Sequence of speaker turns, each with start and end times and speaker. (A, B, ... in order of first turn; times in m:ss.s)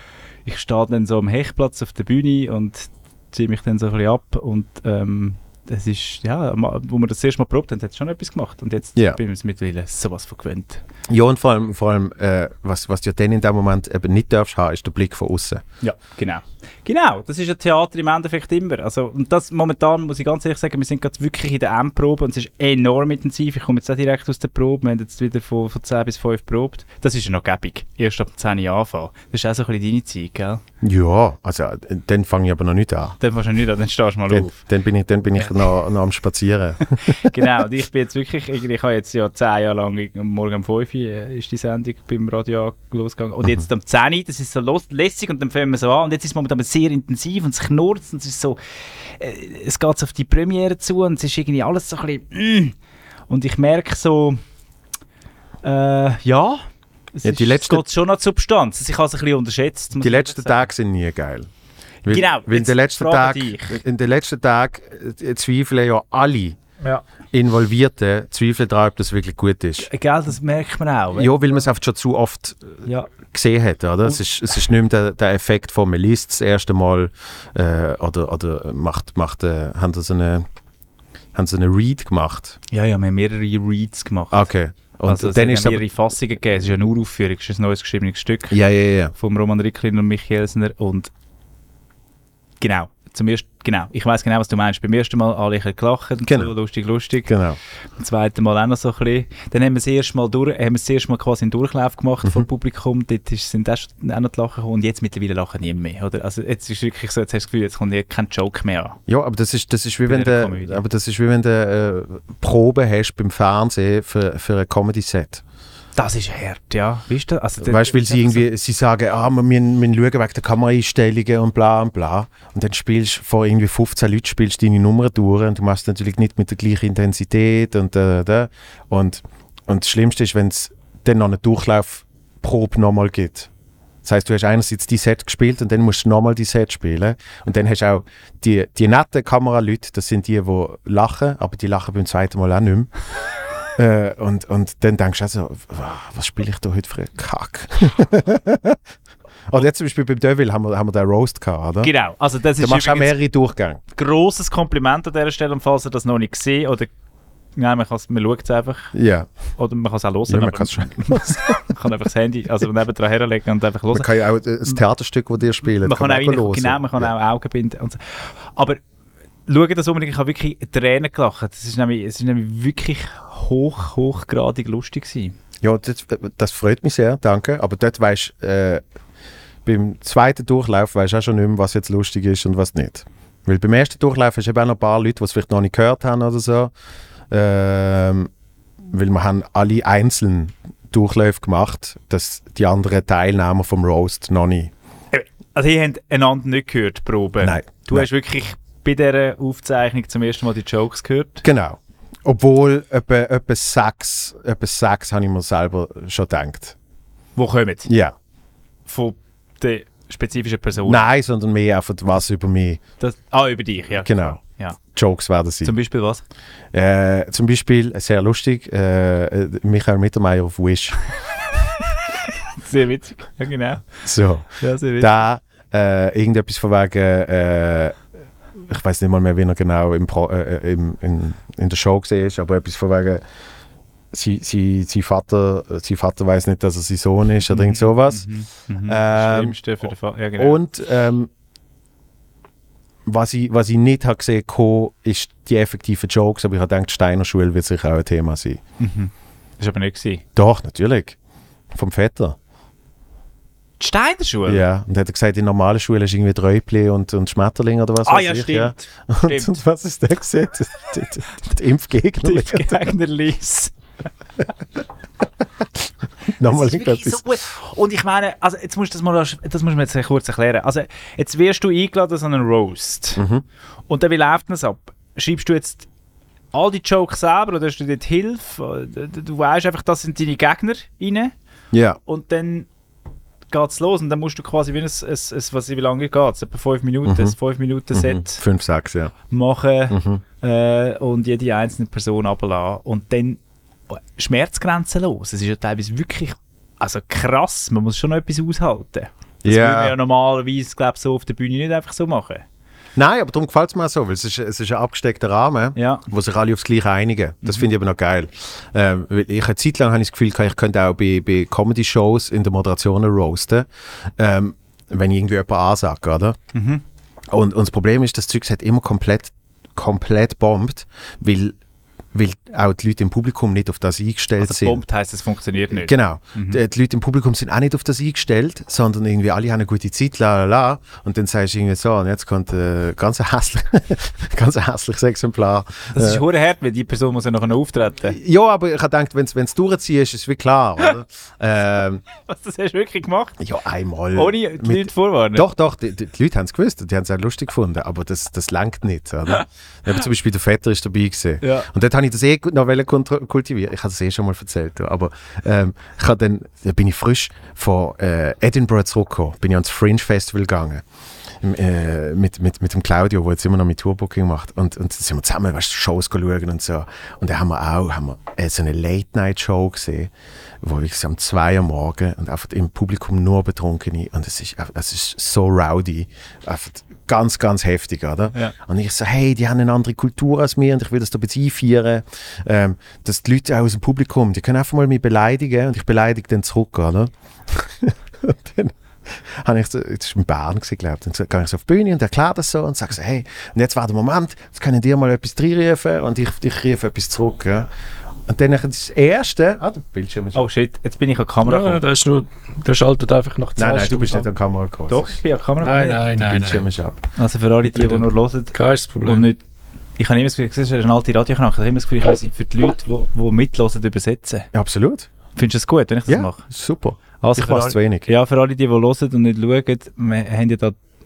0:00.4-0:10.8 A
0:11.1-0:15.6 B
0:15.8-0:30.6 A
0:30.8-0:33.2 B
0:33.2-0:34.6 A
0:34.3-0:37.2 B
0:37.0-0:52.7 A
0:53.3-0:54.4 A
0:55.6-0:56.6 A
0:57.1-1:00.6 A
0:57.2-0:57.9 B
1:00.0-1:01.5 B
1:02.0-1:06.6 B
1:02.1-1:03.8 A
1:07.3-1:09.9 B
1:09.8-1:11.3 A
1:11.1-1:20.5 B
1:21.3-1:22.6 B
1:22.7-1:24.5 A
1:24.3-1:25.8 B
1:25.1-1:28.6 A
1:28.5-1:29.1 B
1:29.1-1:31.1 A
1:32.6-1:37.3 A
1:36.3-1:36.5 B
1:37.2-1:37.6 B
1:38.0-1:49.0 A
1:49.1-1:55.4 B
1:50.1-1:50.8 A
1:56.0-1:58.4 A
1:57.6-2:13.5 B
2:14.0-2:22.9 B
2:23.8-2:28.8 B
2:29.5-2:31.9 B
2:31.8-2:33.1 A
2:32.6-2:33.8 B
2:33.9-2:36.9 A
2:37.6-2:38.9 A
2:38.9-2:39.3 B
2:39.6-2:44.1 A
2:40.3-2:41.5 B
2:43.9-2:47.1 B
2:45.7-2:48.8 A
2:49.5-2:55.3 A
2:55.6-2:58.8 B
2:59.6-3:06.7 B
3:07.3-3:08.3 B
3:08.9-3:14.7 B
3:15.1-3:21.4 A
3:17.4-3:18.1 B
3:21.4-3:26.8 B
3:27.4-3:27.9 A
3:27.9-3:28.1 B
3:28.9-3:31.1 A
3:30.8-3:32.8 B
3:33.0-3:34.8 A
3:34.0-3:34.4 B
3:34.9-3:35.7 B
3:35.6-3:36.2 A
3:36.7-3:41.0 B
3:42.6-3:43.8 A
3:44.0-3:48.0 B
3:44.6-3:45.2 A
3:48.6-3:53.2 B
3:54.1-3:58.3 B
3:57.5-4:00.6 A
3:58.8-3:59.6 B
4:00.4-4:01.3 B
4:03.0-4:08.6 B
4:08.8-4:10.2 A
4:10.3-4:11.2 B
4:11.7-4:12.4 B
4:13.8-4:14.6 A
4:14.4-4:22.8 B
4:18.0-4:19.5 A
4:22.2-4:23.7 A
4:26.3-4:27.2 B
4:26.5-4:33.2 A
4:33.2-4:33.4 B
4:33.9-4:35.9 A
4:36.5-4:41.3 A
4:41.7-4:42.0 B
4:42.0-4:42.7 A
4:43.5-4:48.4 A
4:47.0-4:47.3 B
4:47.9-4:49.1 B
4:49.3-4:53.4 A
4:49.9-4:50.2 B
4:53.9-5:02.4 A
4:59.4-4:59.9 B
5:03.0-5:16.4 B
5:05.8-5:06.0 A
5:16.5-5:16.8 A
5:17.3-5:21.6 B
5:22.1-5:24.8 B
5:24.4-5:26.6 A
5:25.7-5:36.2 B
5:35.9-5:38.2 A
5:38.1-5:42.0 B
5:42.2-5:43.4 A
5:43.4-6:00.8 B
5:44.1-5:45.4 A
5:51.4-5:51.7 A
6:01.4-6:37.7 B
6:38.3-6:40.4 B
6:40.3-6:41.8 A
6:41.4-6:44.3 C
6:43.6-6:45.2 B
6:44.9-6:46.1 A
6:45.6-6:46.6 C
6:46.1-6:47.0 B
6:47.2-6:49.4 A
6:47.7-6:49.3 C
6:50.0-6:54.5 A
6:54.5-6:55.1 B
6:55.4-6:56.4 A
6:56.1-6:58.1 B
6:57.2-7:00.8 A